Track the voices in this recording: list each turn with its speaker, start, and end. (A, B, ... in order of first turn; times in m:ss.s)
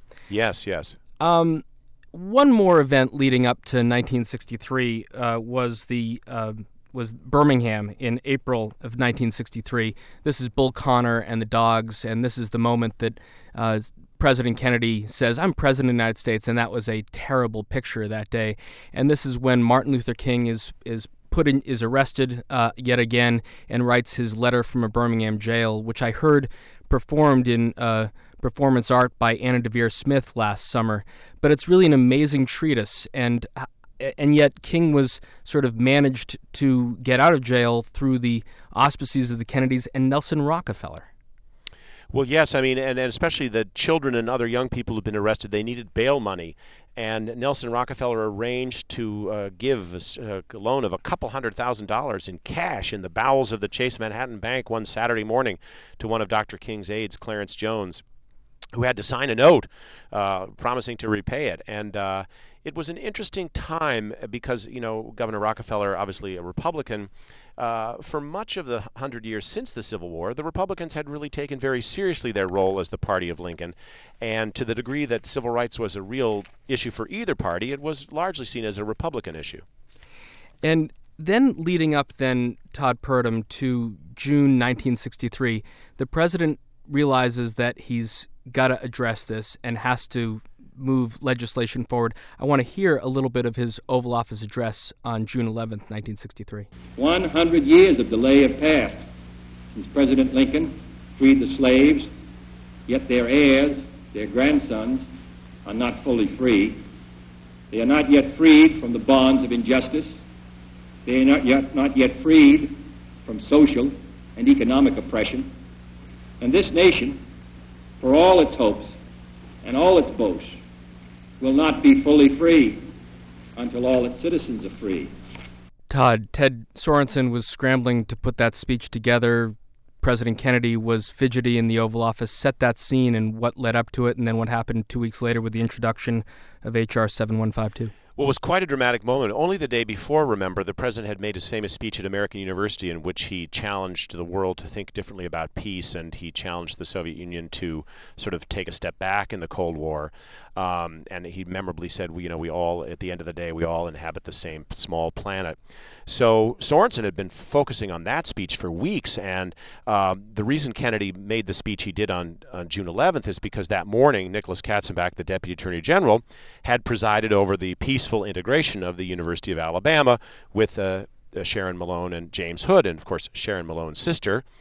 0:00.3-0:01.0 A
0:01.2-0:41.1 B
0:42.1-0:58.0 A
0:58.7-1:19.6 A
1:20.6-1:36.7 B
1:37.0-1:39.0 C
1:39.7-1:42.1 C
1:42.9-1:45.1 C
1:45.6-1:46.8 C
1:47.7-1:50.2 C
1:51.0-1:55.5 C
1:56.4-1:57.2 C
1:58.0-1:58.9 C
1:59.6-2:00.6 C
2:01.4-2:02.9 C
2:03.6-2:05.1 C
2:05.9-2:17.9 B
2:18.2-2:54.4 A